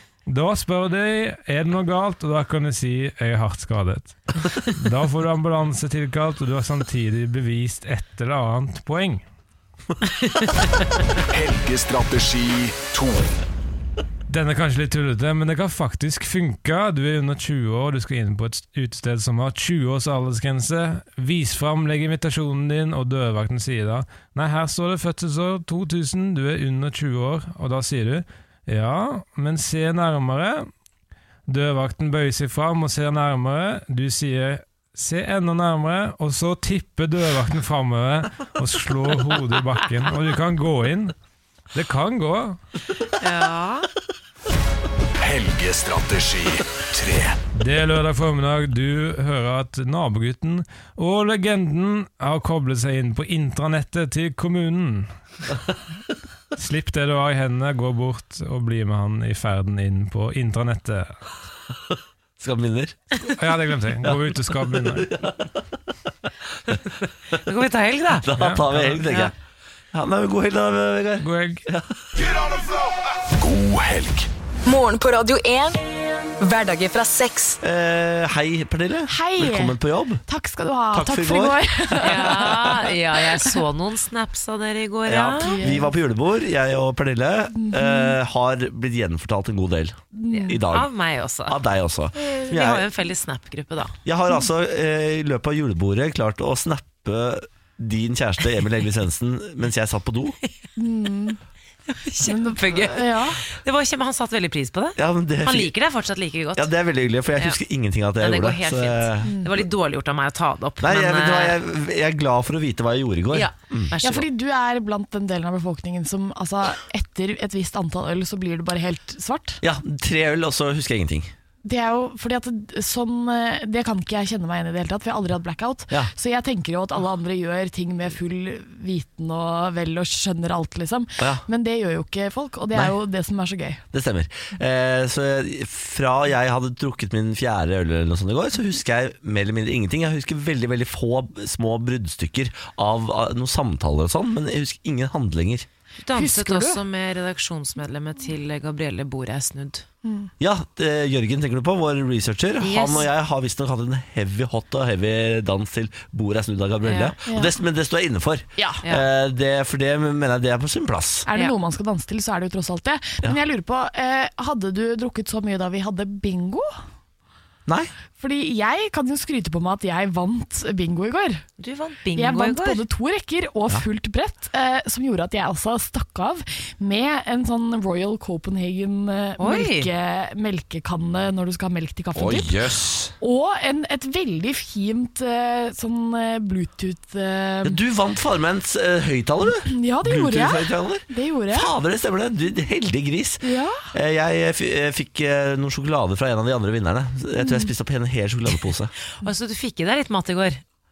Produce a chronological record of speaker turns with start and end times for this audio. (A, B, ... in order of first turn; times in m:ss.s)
0:00.3-0:09.2 A
0:11.3-0:13.4 B
0:14.3-0:30.7 A
0:31.5-0:41.1 A
0:41.7-0:42.6 A
0:43.2-0:43.9 C
0:45.2-0:47.4 B
0:47.5-0:55.1 A
0:56.5-1:01.3 A
1:02.4-1:03.1 D
1:03.2-1:05.1 A
1:04.0-1:05.6 D
1:07.3-1:08.3 C
1:08.2-1:09.3 D
1:08.4-1:09.1 A
1:09.9-1:12.2 D
1:11.2-1:11.6 A
1:12.4-1:14.3 B
1:14.6-1:15.8 E
1:16.4-1:17.6 E
1:17.6-1:20.2 D
1:19.1-1:22.8 F
1:20.9-1:22.7 D
1:22.0-1:25.6 C
1:25.0-1:30.9 D
1:25.4-1:25.9 F
1:27.5-1:28.2 F
1:30.2-1:30.6 F
1:30.3-1:31.6 C
1:31.5-1:32.8 D
1:32.4-1:34.0 C
1:34.0-1:40.4 D
1:40.8-1:41.4 F
1:41.9-1:46.7 C
1:42.2-1:43.4 F
1:45.0-1:45.7 D
1:46.6-1:49.4 D
1:48.2-1:51.6 C
1:50.8-1:53.9 D
1:53.3-1:54.3 C
1:54.0-1:59.6 F
1:59.6-2:01.3 D
2:01.6-2:13.8 F
2:13.9-2:25.7 D
2:26.0-2:29.8 C
2:26.1-2:26.8 F
2:30.0-2:30.3 F
2:30.4-2:41.3 D
2:32.6-2:33.1 C
2:36.8-2:37.1 C
2:37.3-2:37.5 F
2:38.6-2:38.8 F
2:41.3-2:46.7 F
2:47.7-2:47.9 D
2:48.2-2:51.4 F
2:51.6-2:52.8 C
2:52.2-3:02.6 F
2:59.4-2:59.9 C
3:02.1-3:03.1 D
3:03.2-3:07.8 F
3:07.6-3:18.9 D
3:09.6-3:11.7 F
3:13.4-3:13.9 F
3:17.4-3:17.7 F
3:19.1-3:20.6 C